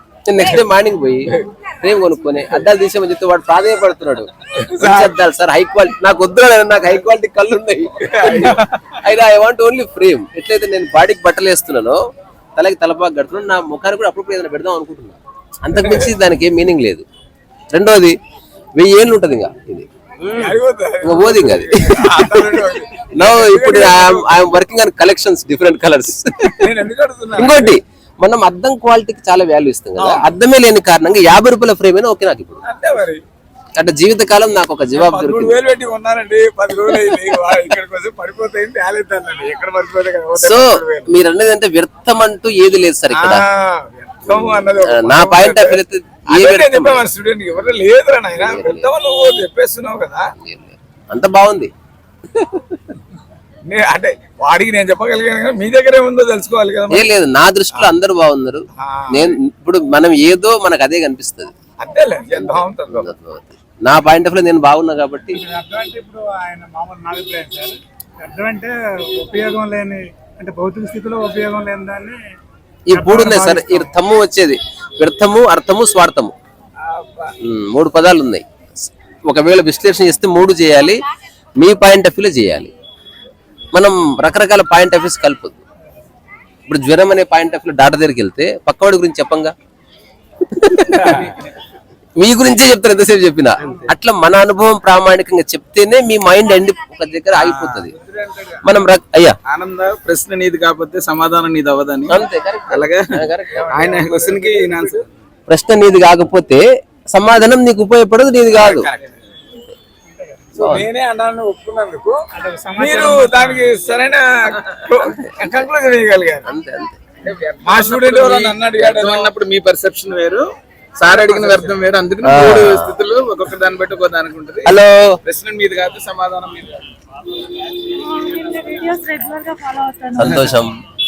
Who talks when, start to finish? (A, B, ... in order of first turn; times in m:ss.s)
0:00.3-0:12.0 A
0:04.7-0:05.1 B
0:08.0-0:08.6 B
0:12.6-0:17.0 A
0:17.7-0:18.2 A
0:18.8-0:19.9 A
0:20.3-0:24.4 B
0:21.0-0:22.6 A
0:23.2-0:26.7 A
0:26.6-0:27.8 B
0:27.3-0:32.6 A
0:30.0-0:30.3 B
0:32.6-0:33.2 B
0:33.8-0:35.6 A
0:35.0-0:41.1 B
0:36.8-0:37.4 A
0:40.4-0:43.4 A
0:43.1-0:50.3 B
0:44.3-0:47.0 A
0:48.4-0:48.9 A
0:50.4-0:51.7 A
0:52.4-0:52.6 A
0:53.7-0:57.1 B
0:56.9-1:01.5 A
0:58.8-0:59.4 B
1:01.8-1:03.1 B
1:02.4-1:05.4 A
1:05.4-1:12.2 C
1:12.9-1:16.3 A
1:12.9-1:13.9 C
1:16.9-1:17.3 B
1:17.4-1:18.4 A
1:19.2-1:21.0 A
1:21.6-1:22.7 A
1:23.7-1:25.6 A
1:26.7-1:29.5 A
1:30.5-1:31.3 A
1:32.2-1:37.9 A
1:38.6-1:39.4 A
1:39.5-1:42.2 D
1:42.1-1:43.7 A
1:42.7-1:43.1 D
1:43.6-1:44.9 B
1:43.7-1:45.0 D
1:45.5-1:48.9 A
1:48.5-1:49.1 B
1:50.6-1:52.2 B
1:50.6-1:50.9 A
1:52.4-1:53.7 C
1:52.7-1:56.5 B
1:56.5-1:57.0 A
1:57.2-2:00.5 D
1:57.6-1:59.3 B
2:01.0-2:06.9 D
2:01.1-2:01.7 A
2:02.2-2:03.0 A
2:04.6-2:05.1 A
2:07.8-2:10.6 E
2:10.2-2:10.7 A